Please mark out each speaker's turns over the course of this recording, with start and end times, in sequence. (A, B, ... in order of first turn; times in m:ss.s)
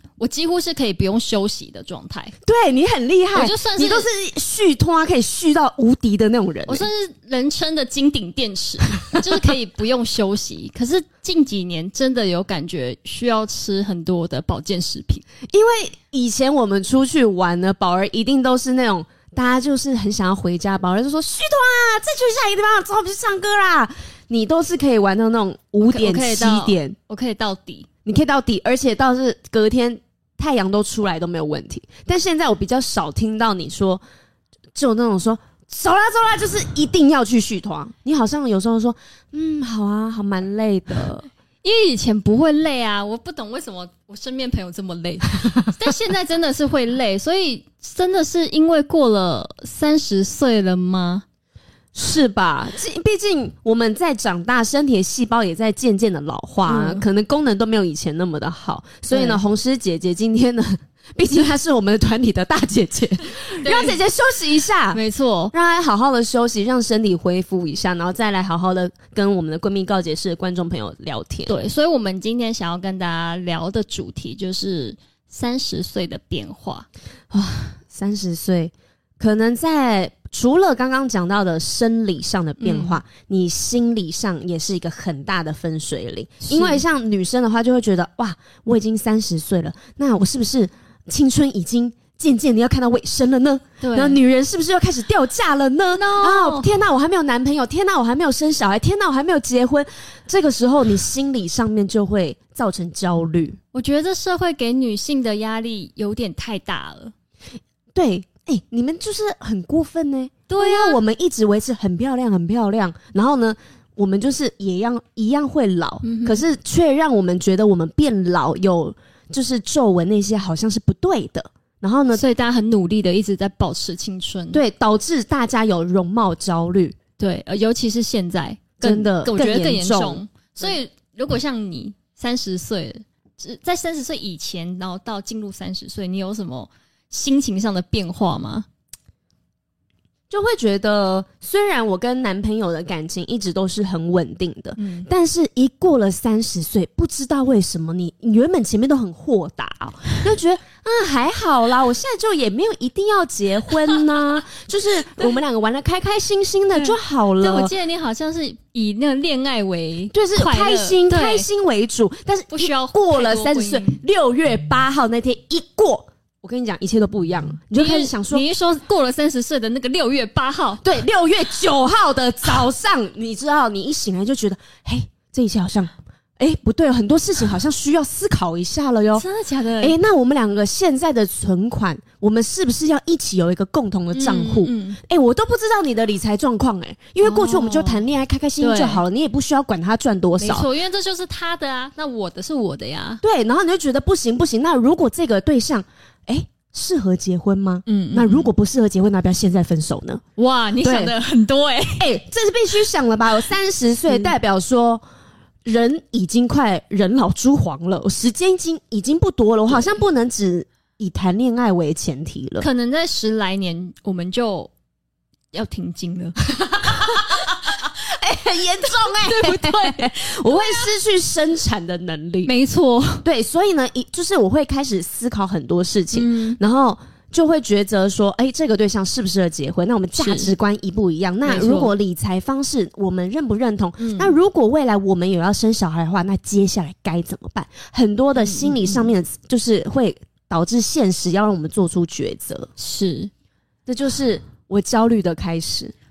0:00.2-0:02.3 A
0:02.4-0:06.9 B
0:03.3-0:04.1 A
0:06.7-0:15.2 A
0:15.5-0:27.0 B
0:25.8-0:27.9 A
0:28.0-0:34.0 B
0:34.7-0:41.2 B
0:41.6-0:51.2 A
0:51.9-1:05.0 B
0:56.7-0:57.0 A
0:59.1-0:59.4 A
1:03.6-1:04.0 A
1:04.9-1:05.5 A
1:05.5-1:11.5 B
1:11.5-1:16.9 A
1:17.3-1:43.6 B
1:22.6-1:23.0 A
1:26.4-1:26.8 A
1:33.8-1:34.2 A
1:35.9-1:36.7 A
1:43.7-1:47.1 A
1:47.9-2:02.2 B
1:50.5-1:51.0 A
1:56.0-1:56.4 A
2:02.1-2:04.6 A
2:04.5-2:07.0 B
2:07.2-2:18.7 A
2:08.8-2:10.8 B
2:20.3-2:37.7 B
2:24.8-2:25.1 A
2:36.7-2:41.5 A
2:40.1-2:48.4 B
2:42.5-2:44.0 A
2:47.8-2:50.8 A
2:50.8-2:59.2 B
2:59.1-3:00.0 A
2:59.8-3:10.6 B
3:04.1-3:05.0 A
3:07.2-3:08.0 A
3:08.6-3:09.0 A
3:10.4-3:13.2 A
3:13.2-3:20.2 B
3:17.8-3:18.5 A
3:20.4-3:22.1 A
3:20.8-3:21.1 B
3:22.0-3:25.0 B
3:25.6-3:32.7 B
3:32.6-3:34.7 A
3:35.5-3:37.7 A
3:36.6-3:42.5 B
3:39.0-3:40.9 A
3:42.4-3:43.3 A
3:43.2-4:02.7 B
3:46.1-3:46.6 A
3:50.1-3:50.5 A
3:51.4-3:51.9 A
3:54.0-3:54.3 A
3:58.4-3:59.1 A
4:02.8-4:03.3 A
4:03.8-4:05.9 B